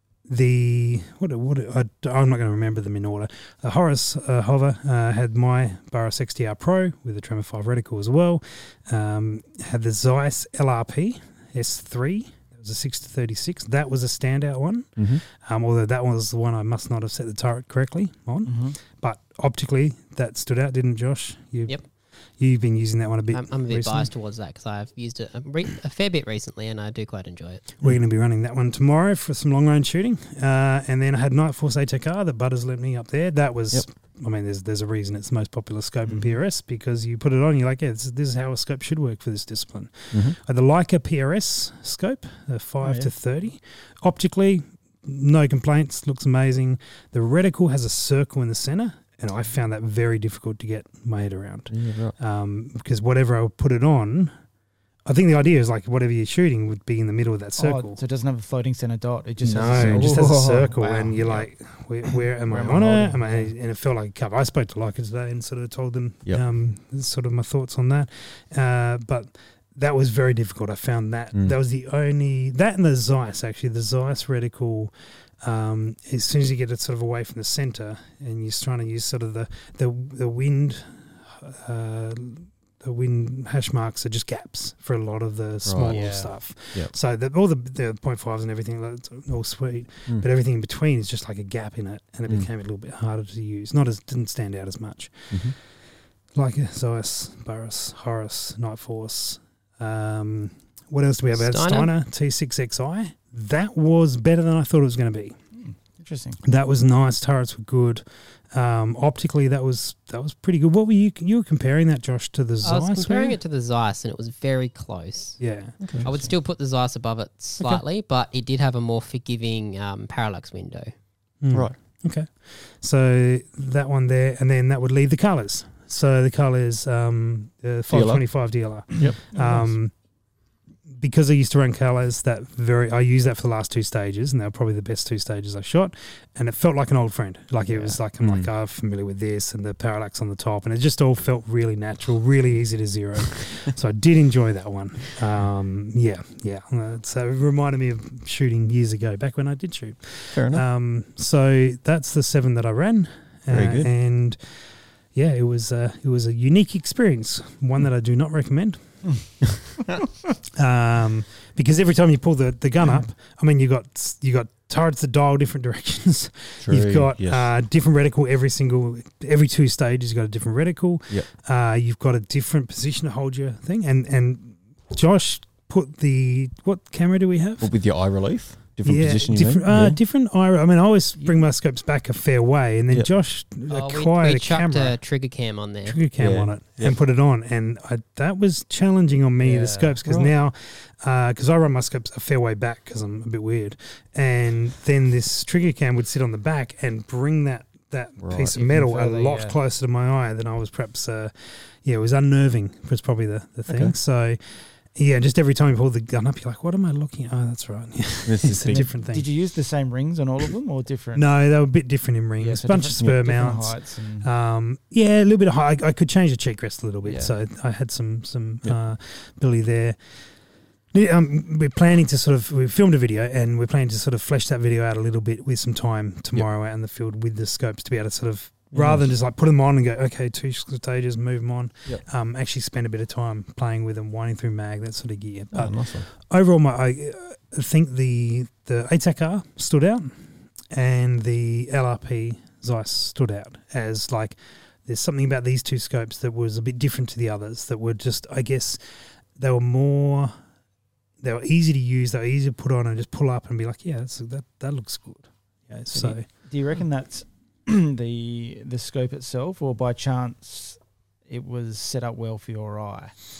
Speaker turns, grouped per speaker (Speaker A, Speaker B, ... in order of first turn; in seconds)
Speaker A: 0.2-21.8, 22.4-24.1, 27.8-54.3, 55.0-58.0, 59.4-95.4, 96.3-105.3, 106.4-113.4, 115.4-115.8, 121.4-129.9, 131.0-154.6, 155.1-158.9, 160.6-177.7, 178.8-185.0, 185.8-204.4, 204.9-209.3, 211.1-220.0, 220.9-240.1, 240.7-248.8, 249.4-250.3, 251.2-256.2
Speaker B: 15.0-15.2, 51.7-52.1, 59.7-60.2, 85.6-86.9, 115.8-116.1, 127.9-128.2, 138.2-138.5, 150.3-150.6, 153.5-153.9, 166.6-167.5, 177.6-180.0, 186.2-187.0, 190.1-190.3, 198.2-198.6, 203.7-203.9, 208.2-208.8, 228.7-229.1, 235.5-236.1
Speaker C: 18.4-18.8, 57.6-61.5, 62.4-63.5, 85.9-86.3, 105.6-106.4, 129.0-129.7, 137.7-137.9, 189.4-190.0, 198.6-199.6, 208.7-211.2, 212.4-214.3, 217.0-217.3, 255.9-263.1
Speaker D: 23.3-27.6, 101.3-101.9, 112.6-115.4, 116.0-120.9, 183.7-186.0